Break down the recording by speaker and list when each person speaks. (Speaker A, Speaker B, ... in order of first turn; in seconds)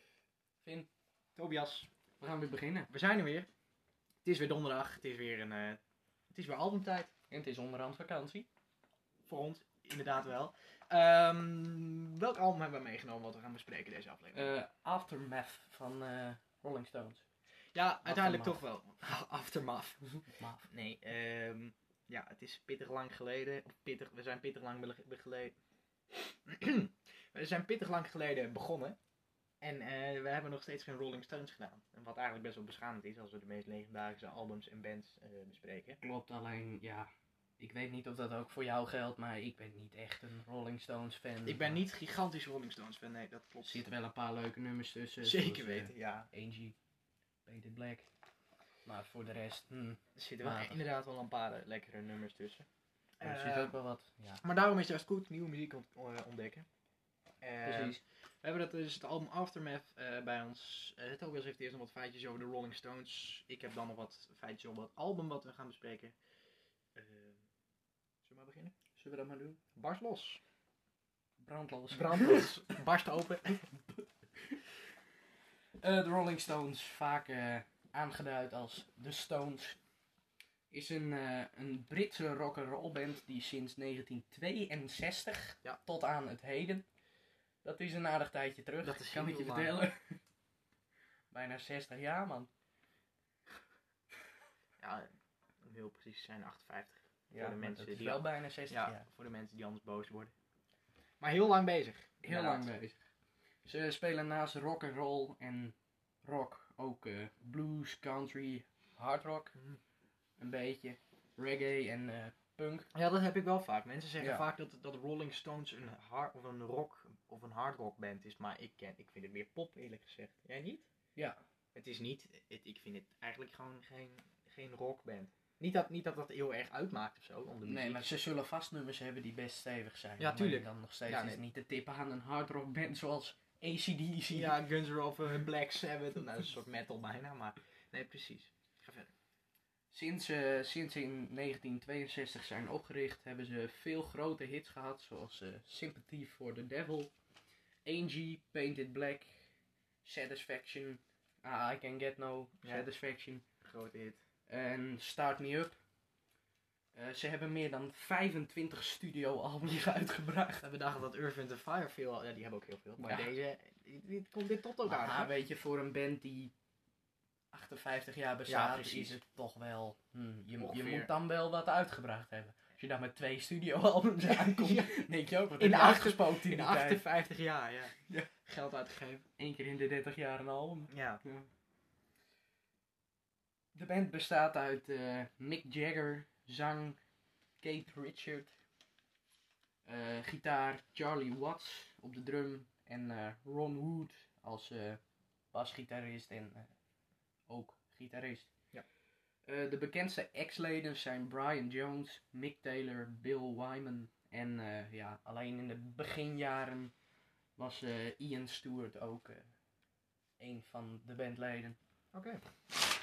Speaker A: 0.6-0.9, 2.2-2.9, 7.3-8.5, 14.3-17.2, 18.1-18.6, 20.3-20.7, 36.0-41.8, 43.6-46.8, 47.5-48.1, 48.9-50.8, 53.2-54.4, 57.6-58.0, 69.0-69.6, 71.4-72.6, 73.7-74.6, 75.8-79.8, 80.7-86.9, 87.6-90.2, 91.3-92.5, 97.3-99.1, 102.2-103.0, 103.7-109.5, 110.4-112.9, 114.2-114.5, 127.7-134.6, 139.9-147.1, 147.8-149.5, 150.0-153.4, 154.5-155.8, 156.9-160.7, 163.0-163.3, 164.8-166.5, 167.5-177.0, 179.4-181.5, 183.8-187.0, 187.6-188.5, 189.8-195.0, 195.5-196.7, 197.5-198.5, 199.5-206.9, 207.6-209.5, 210.4-211.8
Speaker B: 1.4-1.9, 2.9-3.5, 4.2-5.8, 6.3-7.1, 9.3-14.6, 17.8-20.1, 20.7-25.6, 26.4-29.0, 29.6-36.0, 41.5-43.8, 45.2-46.3, 50.2-52.7, 53.2-53.8, 54.4-56.7, 57.4-66.2, 67.0-67.4, 68.2-68.7, 69.8-70.4, 71.9-73.6, 88.8-89.8, 94.8-95.1, 95.6-100.3, 101.2-102.7, 112.9-120.9, 121.8-128.1, 130.2-131.4, 134.3-139.1, 152.6-152.9, 153.6-154.2, 160.6-165.3, 168.5-169.2, 170.6-171.1, 174.3-179.2, 180.9-181.2, 212.1-212.4